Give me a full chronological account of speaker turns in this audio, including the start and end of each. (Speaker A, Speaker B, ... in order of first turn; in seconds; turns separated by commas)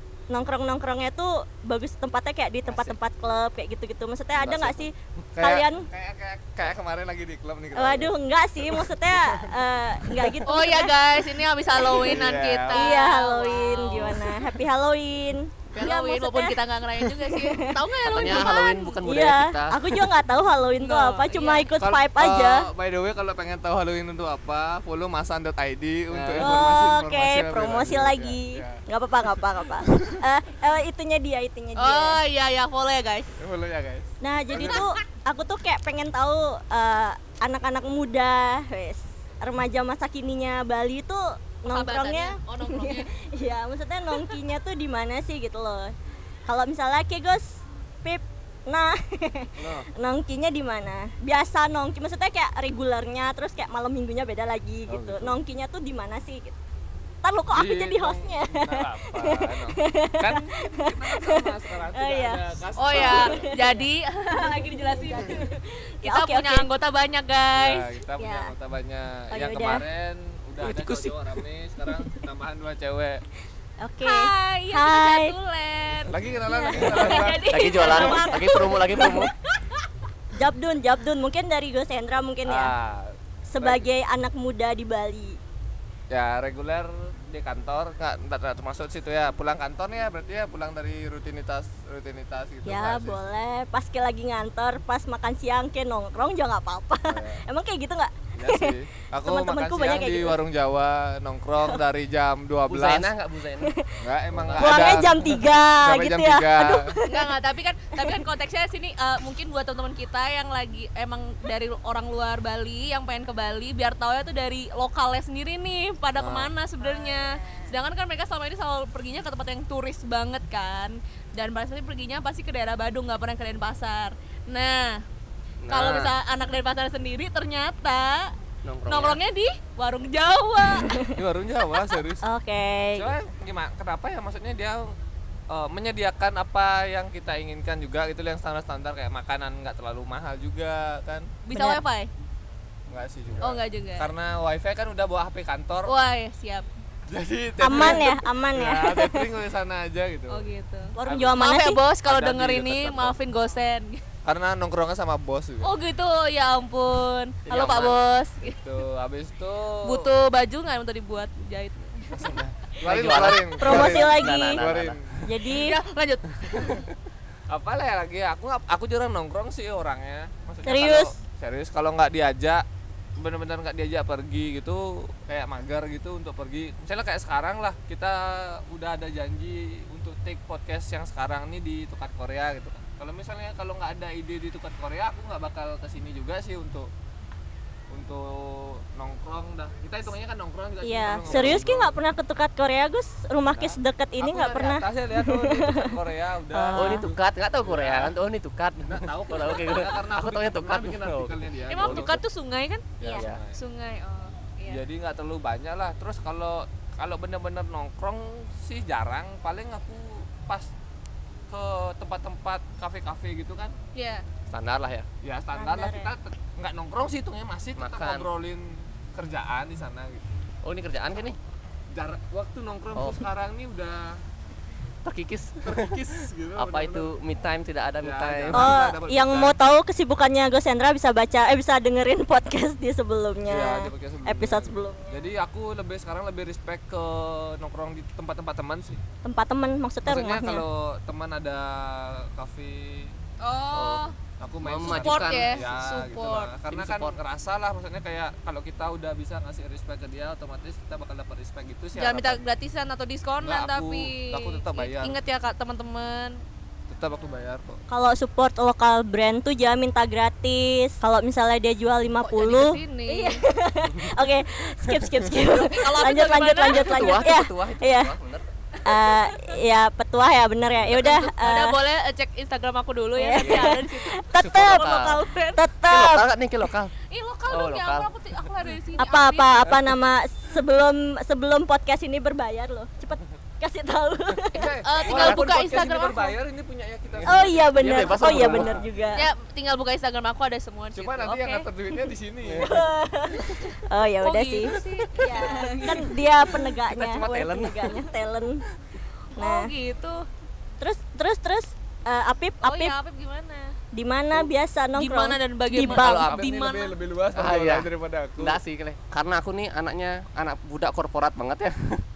Speaker A: 0.3-5.9, Speaker B: 4.4-4.9, Speaker C: 5.4-8.1, Speaker A: 7.8-10.9, Speaker C: 8.7-9.5, Speaker D: 10.5-14.3, Speaker C: 11.7-13.0, Speaker A: 12.7-16.6, Speaker D: 15.7-19.0, Speaker A: 17.2-17.8, Speaker B: 18.1-20.0, Speaker A: 19.0-22.7, Speaker D: 20.8-21.7, Speaker C: 21.8-28.8, Speaker B: 26.1-26.7, Speaker A: 26.4-32.2, Speaker C: 29.8-30.1, Speaker D: 31.8-33.3, Speaker C: 33.4-34.8, Speaker A: 34.2-45.9, Speaker D: 34.6-34.9, Speaker D: 41.7-43.1, Speaker A: 46.5-56.6, Speaker C: 49.6-49.9, Speaker C: 54.9-55.4, Speaker A: 57.2-63.9, Speaker C: 57.5-63.4, Speaker D: 62.8-67.9, Speaker A: 64.5-65.4, Speaker A: 66.0-66.7, Speaker C: 67.5-73.2, Speaker A: 68.2-68.5, Speaker A: 69.3-69.8, Speaker B: 70.6-71.2, Speaker A: 73.8-75.3, Speaker D: 74.0-76.2, Speaker C: 76.0-78.0, Speaker A: 76.5-79.3, Speaker D: 76.8-79.8, Speaker B: 76.8-79.3, Speaker A: 80.3-82.7, Speaker C: 82.5-83.9, Speaker A: 83.5-85.4, Speaker C: 86.1-93.2, Speaker A: 92.7-98.7, Speaker C: 97.1-97.4, Speaker C: 98.3-103.1, Speaker A: 99.3-100.4, Speaker B: 102.7-103.7, Speaker A: 103.6-104.0, Speaker C: 104.0-106.9, Speaker B: 104.3-105.1, Speaker A: 104.6-107.3, Speaker D: 107.1-125.0, Speaker C: 116.2-116.5, Speaker A: 116.8-117.5, Speaker B: 125.6-126.1, Speaker D: 125.7-128.3, Speaker B: 128.6-129.2, Speaker D: 128.9-131.1, Speaker A: 130.8-131.1, Speaker C: 131.1-132.2, Speaker A: 132.2-133.1, Speaker C: 133.0-134.9, Speaker C: 135.5-141.3, Speaker D: 141.4-142.1, Speaker A: 141.5-141.8, Speaker C: 142.9-145.9, Speaker D: 143.4-144.1, Speaker D: 145.8-146.7, Speaker C: 147.1-150.5, Speaker A: 147.6-149.3, Speaker D: 150.3-154.0, Speaker A: 150.9-151.8, Speaker C: 151.1-151.4, Speaker C: 152.0-153.2, Speaker C: 154.2-155.7, Speaker D: 155.6-158.6, Speaker B: 157.5-158.0, Speaker C: 158.4-160.1, Speaker D: 159.8-162.4, Speaker C: 162.1-165.2, Speaker B: 162.8-165.0, Speaker A: 163.6-164.6, Speaker A: 165.2-165.8, Speaker D: 165.5-166.7, Speaker C: 167.5-172.7, Speaker A: 170.7-171.1, Speaker C: 173.2-186.9, Speaker C: 187.9-192.0, Speaker A: 190.8-195.9, Speaker B: 191.3-191.7, Speaker C: 193.5-198.1, Speaker A: 196.5-197.1, Speaker B: 196.8-202.2, Speaker C: 198.9-202.2, Speaker D: 201.7-204.8, Speaker C: 203.0-203.6, Speaker B: 203.1-203.4, Speaker C: 204.7-210.7, Speaker C: 211.5-213.8, Speaker D: 213.9-214.2, Speaker B: 214.5-215.1, Speaker C: 215.2-220.4, Speaker A: 215.6-216.1, Speaker B: 217.8-218.3, Speaker B: 220.6-221.4, Speaker C: 221.9-224.2, Speaker B: 222.9-223.2, Speaker B: 225.0-228.8, Speaker C: 225.6-227.1, Speaker C: 228.0-229.6, Speaker A: 228.5-235.2, Speaker C: 233.5-239.0, Speaker A: 239.2-240.7, Speaker C: 240.1-243.2, Speaker D: 243.4-244.2, Speaker B: 243.7-244.0, Speaker C: 243.8-252.4, Speaker B: 244.6-245.7, Speaker D: 244.8-246.5, Speaker B: 246.7-247.2, Speaker D: 252.0-256.4, Speaker C: 253.4-255.2, Speaker C: 256.9-257.8, Speaker A: 257.9-268.1, Speaker D: 262.2-263.4, Speaker D: 265.4-267.2, Speaker B: 266.7-268.4, Speaker D: 268.9-269.6, Speaker A: 268.9-271.8, Speaker D: 270.9-275.6, Speaker A: 273.2-276.3, Speaker B: 273.4-273.8, Speaker B: 274.4-275.2, Speaker B: 275.9-276.9, Speaker D: 277.1-279.7, Speaker B: 277.5-278.1, Speaker A: 279.0-284.7, Speaker C: 284.5-289.1, Speaker D: 284.8-286.4, Speaker B: 285.1-285.5, Speaker B: 287.1-288.8, Speaker A: 287.3-289.3, Speaker D: 289.1-291.7, Speaker C: 290.9-292.8, Speaker B: 292.4-292.8, Speaker A: 292.6-298.6, Speaker D: 294.2-296.2, Speaker B: 296.7-298.0, Speaker D: 299.4-300.3, Speaker A: 299.4-299.7, Speaker A: 300.8-302.9, Speaker D: 302.6-303.8, Speaker A: 303.9-306.3, Speaker D: 304.9-307.0, Speaker B: 305.9-306.5, Speaker C: 305.9-308.6, Speaker B: 307.3-312.0